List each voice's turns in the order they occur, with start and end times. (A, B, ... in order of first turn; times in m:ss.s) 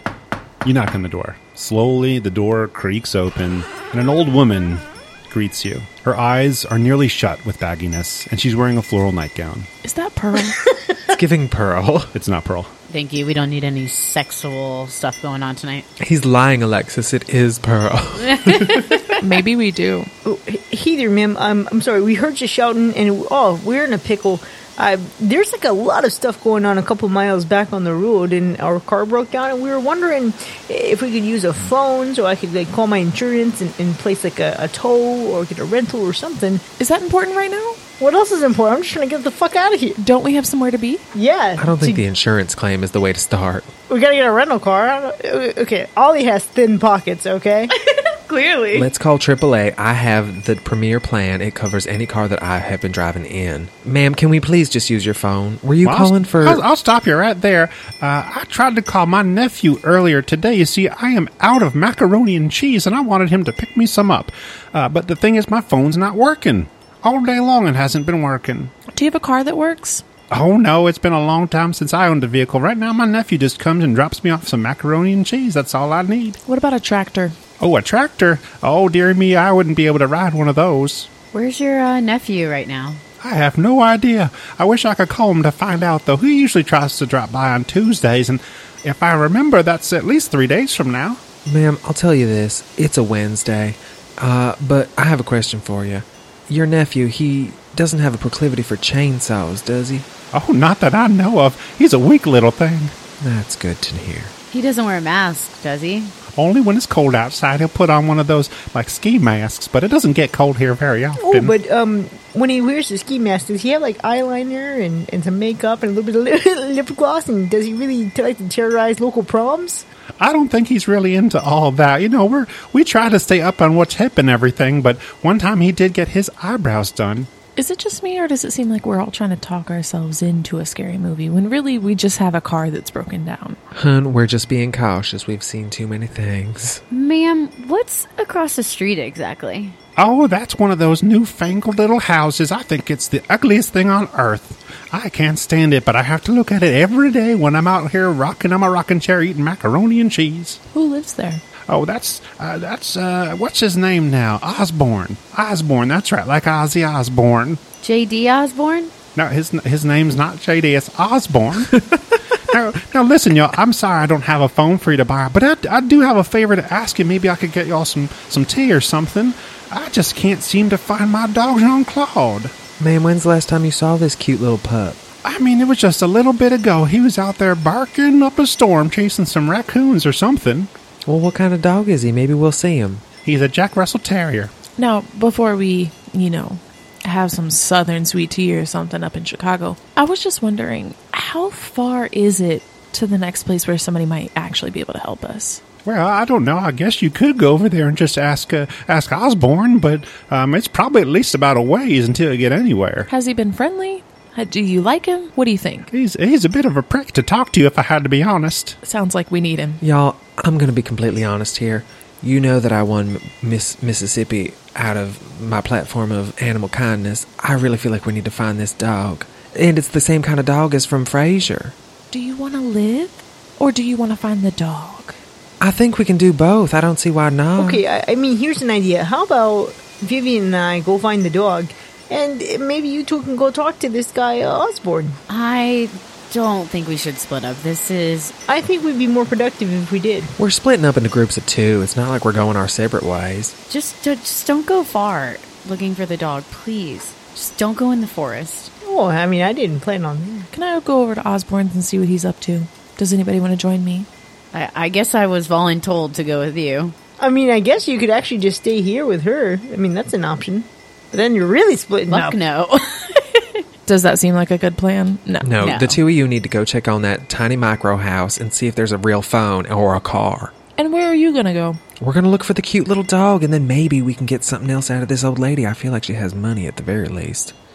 0:00.6-0:09.7 A
0:09.8-0:10.7 B
0:11.1-0:12.1 C
0:12.1-0:12.7 A
0:12.9-0:15.8 D
0:16.0-0:19.0 C
0:18.3-0:19.1 D
0:19.1-0:20.1 B
0:20.2-0:36.6 E
0:36.8-0:37.8 B
0:38.0-0:40.0 E
0:40.0-0:41.1 B
0:41.1-0:42.0 E
0:41.6-0:43.7 C
0:43.9-0:47.7 E
0:47.7-0:48.9 D
0:48.7-0:56.6 C
0:55.8-1:08.7 A
1:08.9-1:10.0 B
1:10.3-1:16.4 A
1:16.5-1:17.4 B
1:17.6-1:21.1 A
1:21.3-1:23.0 D
1:23.2-1:31.2 A
1:31.4-1:40.1 C
1:40.3-1:42.9 A
1:43.2-1:44.3 C
1:44.5-1:46.1 D
1:46.3-1:51.5 A
1:51.2-1:59.8 E
2:00.2-2:07.3 A
2:07.6-2:13.6 B
2:13.7-2:16.8 C
2:16.9-2:19.8 D
2:20.0-2:30.6 A
2:30.7-2:31.4 B
2:31.7-2:37.6 A
2:37.8-2:38.9 D
2:39.2-2:41.9 A
2:42.5-2:52.5 A
2:52.8-2:55.0 C
2:55.2-3:00.7 A
3:01.0-3:03.0 C
3:03.2-3:04.5 A
3:04.8-3:15.6 B
3:15.8-3:23.1 A
3:23.1-3:25.9 B
3:25.9-3:28.8 A
3:28.8-3:29.8 B
3:29.8-3:41.7 C
3:42.1-3:45.2 B
3:45.6-3:47.8 C
3:47.6-3:55.2 E
3:55.3-3:58.3 D
3:58.5-4:00.3 E
4:00.4-4:03.5 C
4:03.7-4:08.7 D
4:08.8-4:10.5 E
4:10.5-4:14.1 B
4:14.5-4:17.0 D
4:17.2-4:22.4 E
4:22.1-4:23.6 D
4:23.9-4:25.6 B
4:25.4-4:30.5 C
4:25.6-4:26.0 D
4:30.8-4:31.8 B
4:32.0-4:37.5 C